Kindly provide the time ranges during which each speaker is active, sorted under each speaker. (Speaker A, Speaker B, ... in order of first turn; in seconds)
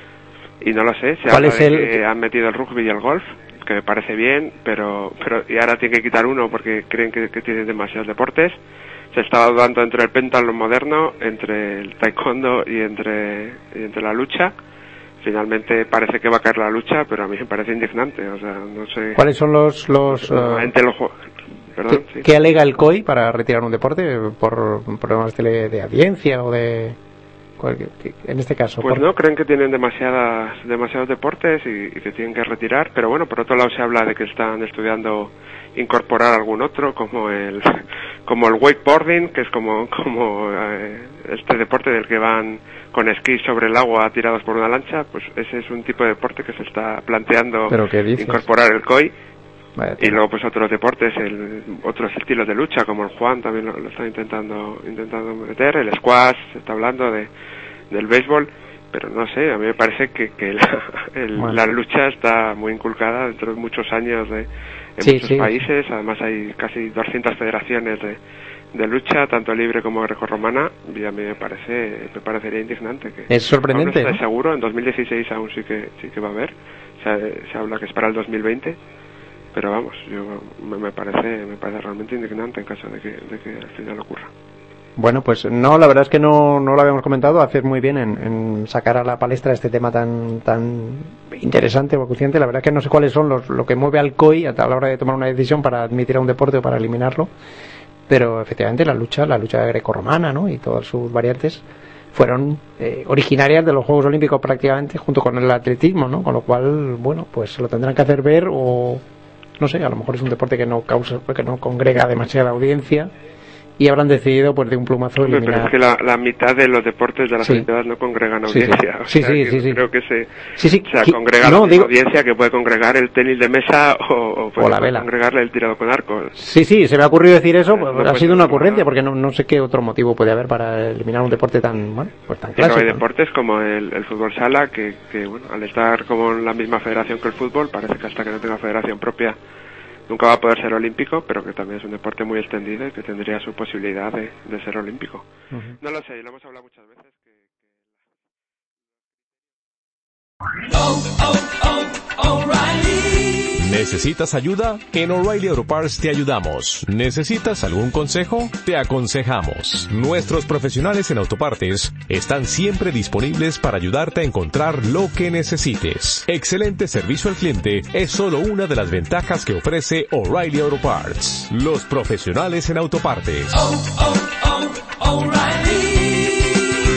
Speaker A: 0.6-8.6, 9.1-14.5, 15.2-19.2, 20.1-21.1, 21.7-22.3, 28.8-49.1, 50.0-57.3, 57.9-68.2, 68.7-78.8, 79.5-84.3, 115.2-120.3, 120.8-126.3, 127.7-128.9, 132.6-139.4, 140.1-145.2, 145.8-147.7
Speaker B: 1.3-2.0, 19.1-20.7, 21.9-27.0, 27.6-29.0, 47.7-48.4, 49.8-50.2, 65.0-65.6, 73.3-74.2, 85.0-97.3, 98.1-109.0, 109.6-113.1, 113.8-115.7, 117.4-117.7, 118.5-119.8, 120.5-121.9, 124.5-125.1, 126.3-133.0, 145.5-145.8
Speaker C: 151.2-151.5, 152.1-173.9, 175.0-176.1